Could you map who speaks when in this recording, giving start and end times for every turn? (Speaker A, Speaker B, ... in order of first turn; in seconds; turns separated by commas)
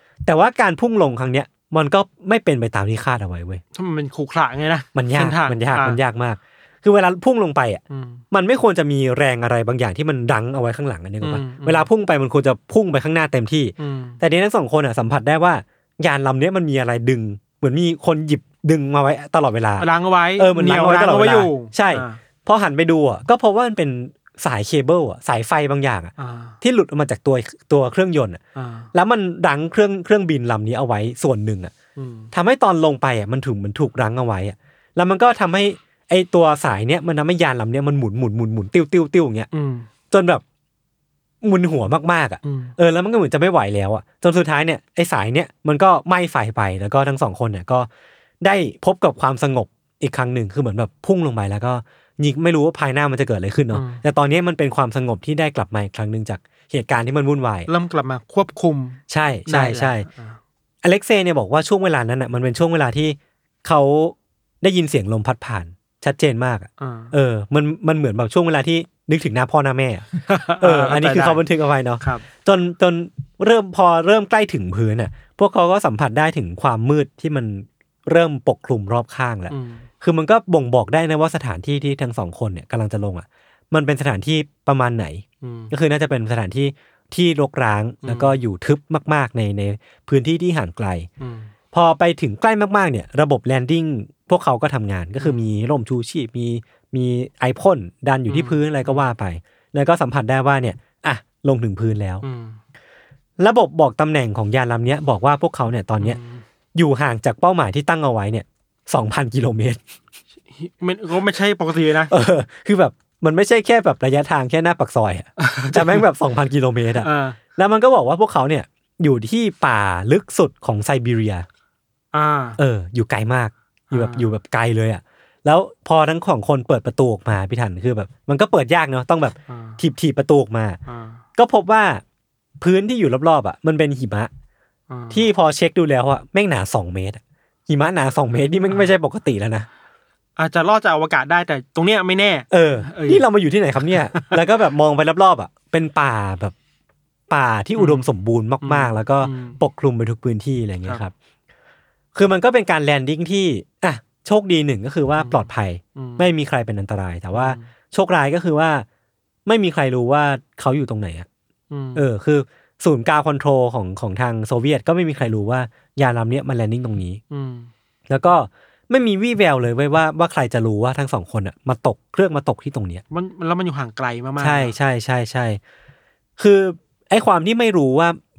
Speaker A: 0.2-3.6, Speaker B: 3.8-6.0, Speaker A: 5.0-28.4, Speaker B: 7.9-8.2, Speaker B: 11.2-11.9, Speaker B: 13.8-14.2, Speaker B: 19.8-22.2, Speaker B: 26.2-26.6, Speaker B: 28.6-28.9, Speaker A: 28.9-31.7, Speaker B: 32.0-32.3, Speaker A: 32.3-39.5, Speaker B: 39.5-39.9, Speaker A: 40.1-40.4, Speaker A: 41.4-47.9, Speaker B: 42.4-42.8, Speaker A: 48.4-57.7, Speaker B: 53.7-54.0, Speaker B: 57.7-60.4, Speaker A: 59.1-60.1, Speaker A: 60.8-70.1, Speaker B: 66.8-67.1, Speaker B: 70.2-71.4, Speaker A: 70.6-91.1, Speaker B: 72.0-72.3, Speaker B: 79.5-79.9, Speaker B: 85.4-85.7, Speaker B: 88.0-88.4, Speaker B: 91.2-91.5, Speaker A: 91.7-102.2, Speaker B: 95.2-95.5, Speaker B: 98.3-99.1, Speaker B: 102.2-102.6, Speaker A: 103.4-106.2, Speaker B: 106.0-106.4, Speaker A: 106.8-109.8, Speaker B: 110.5-112.1, Speaker A: 112.1-121.5, Speaker B: 115.4-116.0, Speaker B: 117.0-117.4, Speaker B: 122.1-122.6, Speaker A: 122.6-130.8, Speaker B: 123.9-124.3, Speaker B: 129.5-129.8, Speaker B: 130.9-131.2, Speaker A: 131.4-132.0, Speaker A: 132.6-134.3, Speaker B: 134.9-135.3, Speaker A: 135.1-139.7, Speaker B: 140.4-143.2, Speaker A: 142.5-146.6, Speaker B: 143.8-144.4, Speaker A: 147.3-151.1, Speaker B: 147.8-148.1, Speaker B: 148.6-149.6, Speaker A: 152.2-158.9, Speaker B: 155.2-155.4, Speaker B: 156.0-156.3, Speaker B: 157.3-157.7, Speaker A: 159.5-161.3, Speaker B: 161.7-162.1, Speaker A: 161.9-167.2, Speaker B: 167.3-167.7, Speaker A: 168.1-173.0, Speaker B: 173.1-174.8, Speaker A: 174.4-175.6, Speaker A: 176.4-178.2